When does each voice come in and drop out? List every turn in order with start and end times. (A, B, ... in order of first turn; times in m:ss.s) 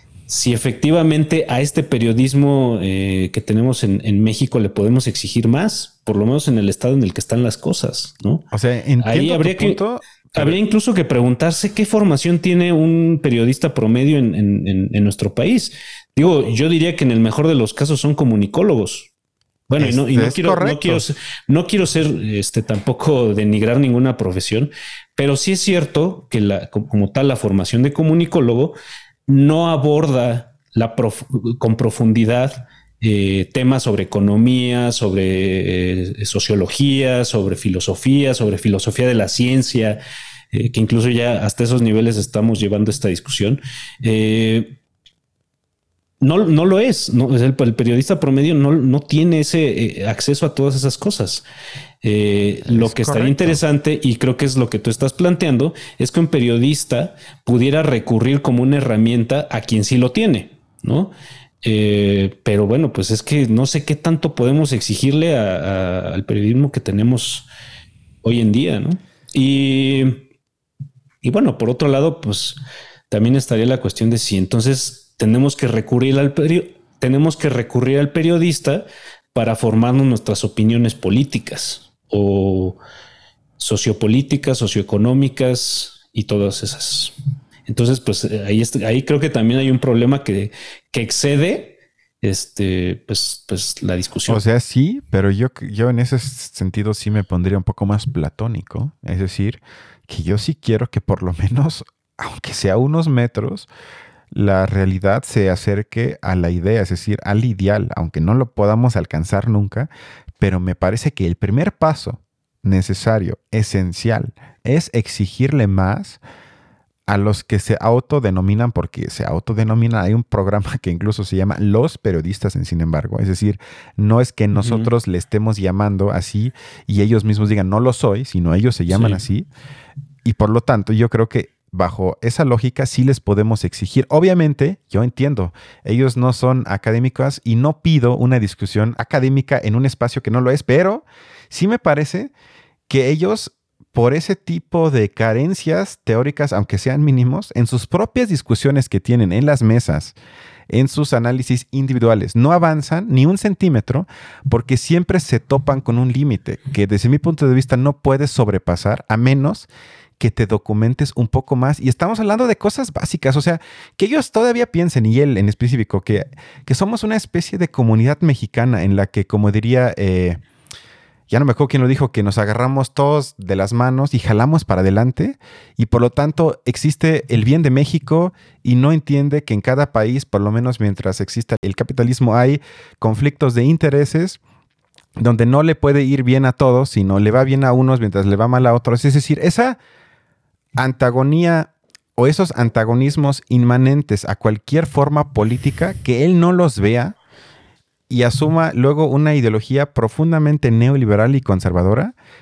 0:00.3-0:08.5 A
0:08.5-0:10.6 B
0:09.0-0:09.8 A
0:10.3-0:19.1 A
0:19.7-0:40.0 A
0:19.8-0:21.0 B
0:40.5-0:44.8 A
0:46.2-0:51.4 A
0:52.0-1:07.5 A
0:52.6-0:53.6 B
1:08.2-1:10.3 A
1:11.2-1:22.8 A
1:23.6-1:27.2 A
1:27.7-1:34.4 A
1:34.3-1:43.7 B
1:44.3-1:56.2 B
1:57.1-2:09.5 B
2:04.5-2:04.9 A
2:08.9-2:09.2 A
2:10.2-2:22.3 B
2:22.9-2:30.1 B
2:30.7-2:39.7 B
2:40.2-2:50.4 B
2:51.3-3:04.4 B
3:05.2-3:09.8 B
3:10.8-3:17.2 B
3:18.1-3:22.1 B